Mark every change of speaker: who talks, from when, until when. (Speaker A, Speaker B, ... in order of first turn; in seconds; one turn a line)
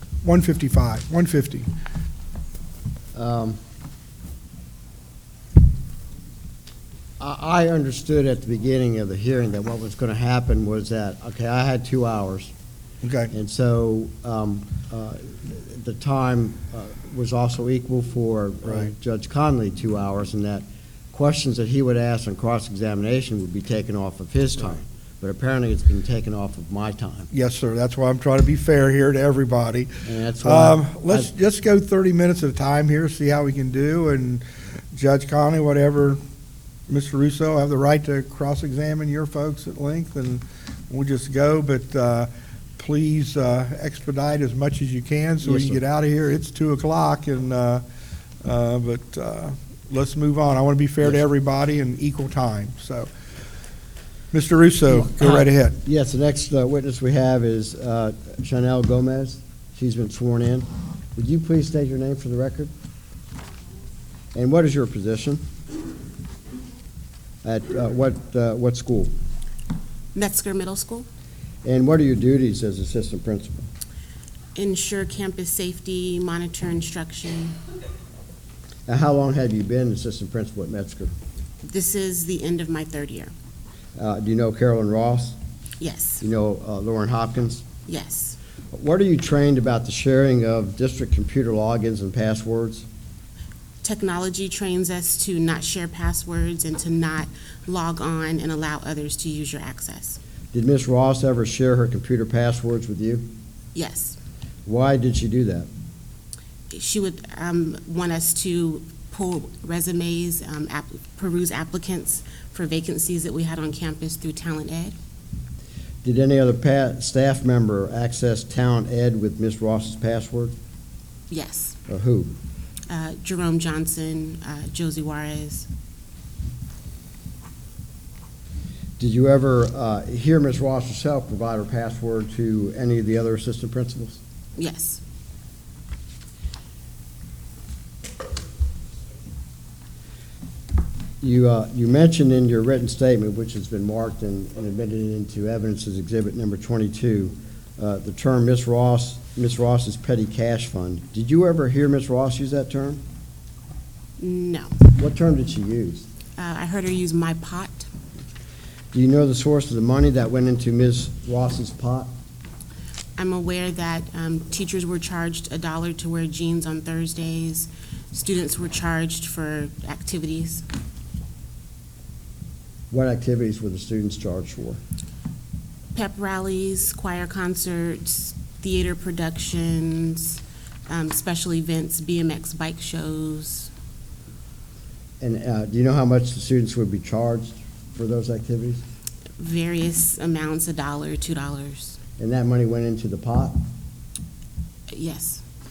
Speaker A: 0.2-1.7
Speaker B: 3.1-3.6
Speaker B: 7.2-12.5
Speaker A: 13.0-13.3
Speaker B: 13.3-27.3
Speaker A: 27.3-36.2
Speaker B: 30.0-31.3
Speaker A: 36.9-47.8
Speaker B: 45.4-45.8
Speaker A: 48.4-53.1
Speaker A: 54.3-55.8
Speaker B: 54.9-62.7
Speaker B: 64.3-65.4
Speaker B: 67.4-69.1
Speaker C: 70.1-71.1
Speaker B: 71.6-73.7
Speaker C: 74.5-77.6
Speaker B: 78.9-81.1
Speaker C: 81.6-83.3
Speaker B: 84.0-85.4
Speaker C: 85.8-86.2
Speaker B: 86.2-87.6
Speaker C: 87.8-88.4
Speaker B: 88.7-92.9
Speaker C: 93.8-100.2
Speaker B: 100.5-103.3
Speaker C: 103.7-104.2
Speaker B: 104.7-105.7
Speaker C: 106.7-115.0
Speaker B: 116.0-120.5
Speaker C: 121.3-121.8
Speaker B: 121.9-122.3
Speaker C: 122.9-125.7
Speaker B: 129.0-134.2
Speaker C: 134.6-135.0
Speaker B: 141.2-153.0
Speaker C: 154.2-154.8
Speaker B: 154.9-156.1
Speaker C: 156.4-157.9
Speaker B: 158.9-162.1
Speaker C: 163.2-170.6
Speaker B: 172.9-174.8
Speaker C: 175.9-183.7
Speaker B: 185.2-188.8
Speaker C: 189.4-192.0
Speaker B: 192.2-193.6
Speaker C: 194.9-195.4